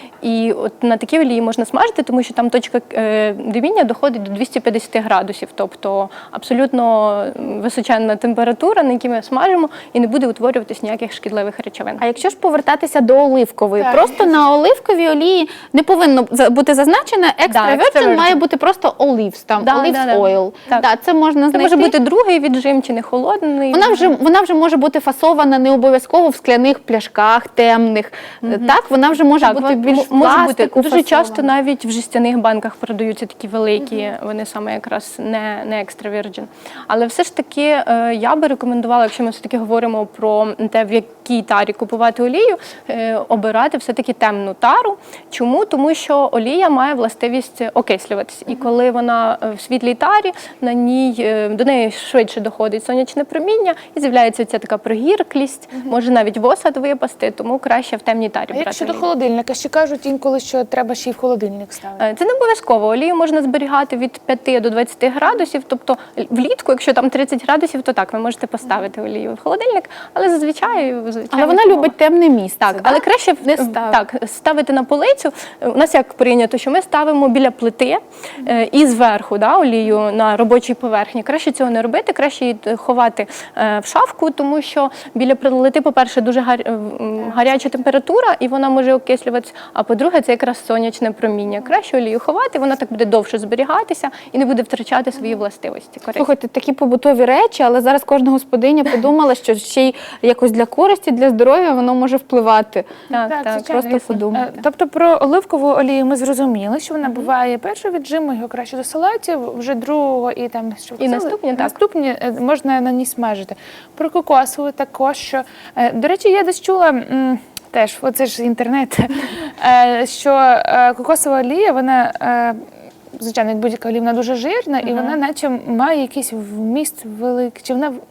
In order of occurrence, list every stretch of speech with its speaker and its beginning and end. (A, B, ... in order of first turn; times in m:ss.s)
0:00.2-0:12.0 A
0:12.0-0:21.9 B
0:13.8-0:14.4 C
0:17.5-0:18.4 A
0:19.6-0:20.9 A
0:21.5-0:24.1 A
0:23.7-0:31.5 B
0:28.4-0:28.7 A
0:29.4-0:59.0 A
0:58.5-1:02.0 C
1:02.0-1:11.9 A
1:11.3-1:14.0 B
1:12.7-1:36.3 A
1:27.4-1:27.7 C
1:36.2-1:42.9 B
1:43.1-1:44.3 A
1:43.3-2:02.6 C
1:43.6-1:44.5 B
1:51.0-1:51.8 A
2:03.2-2:08.0 C
2:04.8-2:05.2 A